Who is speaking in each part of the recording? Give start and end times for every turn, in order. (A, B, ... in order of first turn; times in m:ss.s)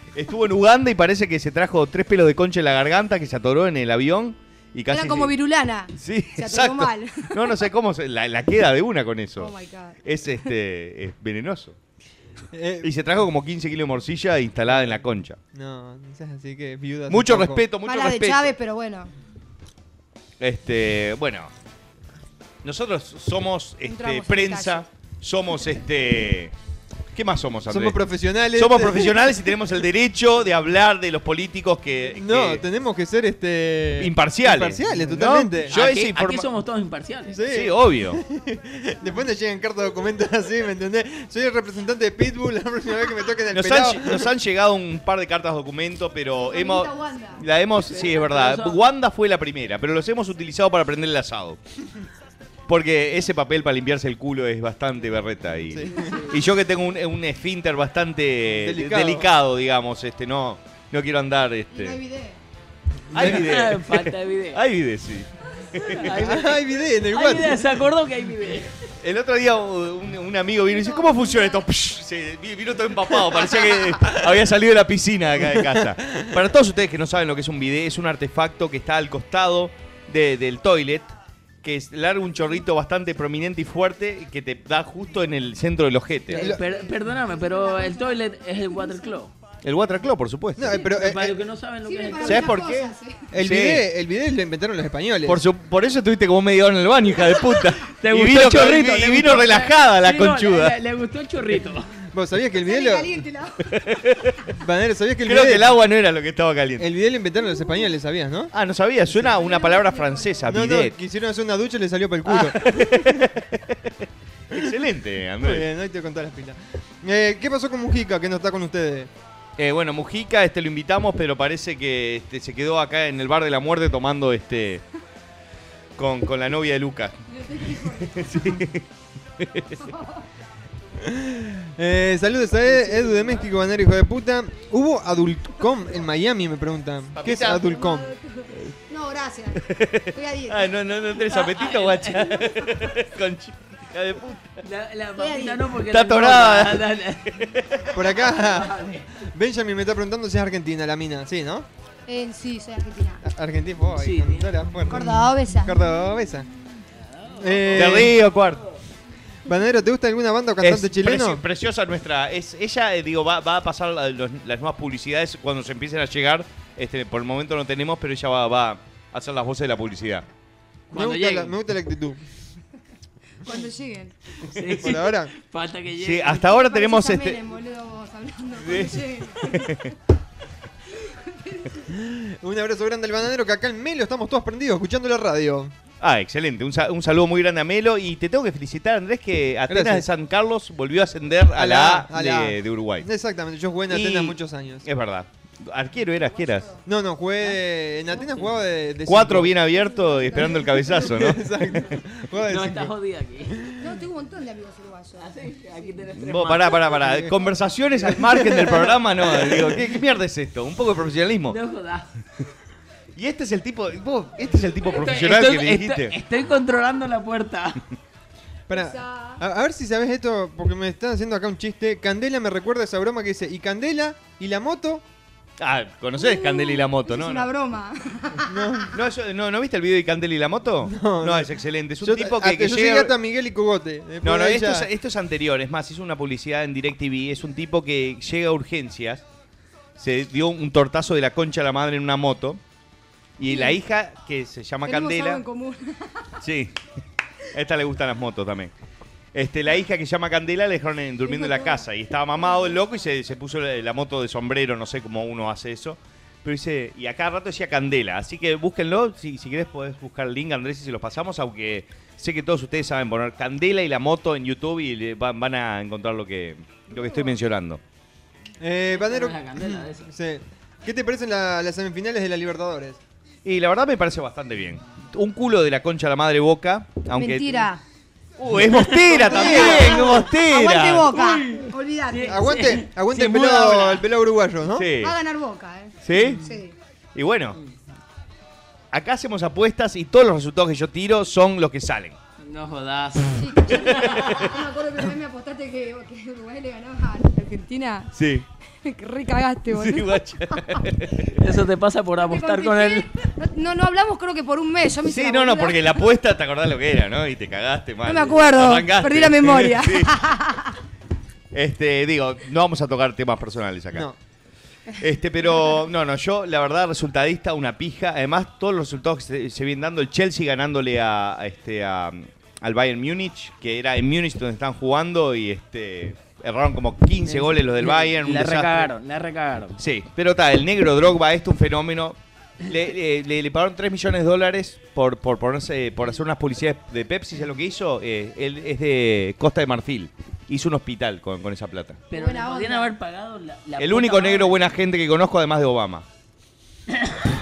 0:00.1-0:05.3 A
0:04.9-0:07.4 B
0:06.0-0:09.5 A
0:09.4-0:10.0 B
0:10.0-0:11.8 A
0:12.5-0:12.9 C
0:12.8-0:15.4 A
0:14.7-0:15.0 C
0:15.5-0:17.6 C
0:17.1-0:18.5 A
0:17.8-0:19.1 B
0:20.4-0:21.5 A
0:22.6-0:26.5 A
0:23.8-0:24.8 B
0:27.1-0:28.0 A
0:27.7-0:29.3 C
0:28.5-0:32.6 A
0:32.2-0:35.8 C
0:34.0-0:36.5 A
0:35.7-0:37.4 D
0:37.3-0:44.3 C
0:37.5-0:38.2 A
0:43.5-0:51.6 A
0:46.4-0:47.4 B
0:47.8-0:48.8 D
0:52.7-1:02.0 A
0:55.7-0:56.1 C
0:58.5-0:59.3 C
1:01.7-1:02.4 B
1:03.1-1:06.1 A
1:03.1-1:04.6 D
1:06.0-1:08.7 D
1:06.2-1:07.7 C
1:09.0-1:26.5 A
1:10.7-1:11.6 B
1:15.4-1:15.9 C
1:26.3-1:29.3 D
1:26.3-1:26.6 C
1:26.5-1:28.2 B
1:28.8-1:29.1 B
1:29.6-1:30.7 A
1:30.6-1:31.4 C
1:30.8-1:32.6 D
1:31.8-1:33.3 B
1:32.2-1:33.8 A
1:33.3-1:35.4 C
1:35.2-1:40.7 A
1:38.0-1:41.9 D
1:42.1-1:43.2 C
1:42.6-1:43.6 B
1:43.7-1:44.4 A
1:44.5-1:45.7 C
1:45.2-1:46.9 A
1:46.8-1:48.5 C
1:48.5-1:50.9 A
1:49.3-1:50.3 B
1:50.4-1:53.2 C
1:52.2-1:53.6 A
1:54.5-1:55.6 A
1:55.4-1:59.1 C
1:59.6-2:04.8 A
2:06.0-2:07.2 A
2:07.3-2:08.2 B
2:07.8-2:08.8 A
2:09.4-2:09.8 A
2:09.8-2:10.2 B
2:11.0-2:18.1 C
2:17.2-2:17.7 A
2:17.8-2:20.7 B
2:19.7-2:24.5 A
2:21.3-2:22.4 D
2:24.6-2:27.3 D
2:25.2-2:25.6 B
2:25.9-2:27.6 A
2:27.9-2:28.8 C
2:28.1-2:29.0 D
2:29.3-2:31.7 C
2:32.1-2:33.2 B
2:33.2-2:36.5 C
2:34.0-2:34.7 D
2:34.9-2:35.7 B
2:37.1-2:38.1 D
2:37.4-2:38.1 C
2:37.7-2:38.6 A
2:39.5-2:41.4 C
2:40.6-2:50.2 A
2:50.9-2:51.5 D
2:50.9-2:52.2 C
2:53.4-2:54.1 B
2:54.4-2:56.5 D
2:54.7-2:55.3 C
2:56.0-2:57.4 A
2:56.5-2:59.7 B
2:58.6-2:59.9 A
3:01.0-3:01.7 B
3:01.9-3:05.7 C
3:06.0-3:13.1 A
3:09.7-3:10.1 C
3:11.5-3:14.8 C
3:13.9-3:16.7 A
3:16.4-3:16.8 B
3:16.8-3:19.6 C
3:19.0-3:21.4 A
3:20.1-3:20.9 B
3:21.0-3:22.9 C
3:22.4-3:23.6 D
3:23.8-3:25.3 B
3:25.2-3:27.0 D
3:26.1-3:31.6 A
3:27.0-3:27.3 C
3:28.0-3:29.6 C
3:31.5-3:32.1 D
3:33.1-3:36.1 A
3:34.8-3:37.8 D
3:38.7-3:45.0 C
3:38.7-3:39.4 B
3:45.6-3:47.5 A
3:46.2-3:48.6 B
3:48.5-3:48.9 C
3:48.9-3:53.1 A
3:50.8-3:54.9 C
3:54.2-3:59.2 A
4:00.0-4:02.6 A
4:03.4-4:05.4 A
4:03.5-4:03.8 B
4:04.8-4:06.3 B
4:06.4-4:06.7 A
4:07.5-4:08.7 A
4:09.3-4:27.8 A
4:11.2-4:11.8 B
4:28.6-4:33.0 C
4:29.0-4:30.1 D
4:33.4-4:37.7 A
4:37.1-4:37.8 B
4:38.4-4:41.2 A
4:38.7-4:40.0 D
4:39.3-4:40.1 C
4:39.3-4:42.8 B
4:41.1-4:44.0 D
4:42.3-4:44.9 C
4:44.7-4:45.2 A
4:45.0-4:46.7 B
4:46.0-4:46.4 A
4:47.1-4:47.6 A
4:48.9-4:52.2 A
4:52.4-4:54.2 D
4:53.3-4:58.1 B
4:58.1-4:58.4 A
4:58.8-5:00.2 B
4:59.7-5:01.4 A
5:01.4-5:03.1 D
5:02.2-5:06.0 B
5:05.0-5:10.2 A
5:08.0-5:10.8 B
5:11.5-5:14.1 A
5:15.0-5:28.9 A
5:27.2-5:29.8 D
5:29.8-5:42.0 A
5:42.1-5:44.6 D
5:42.1-5:42.9 B
5:43.8-5:46.0 A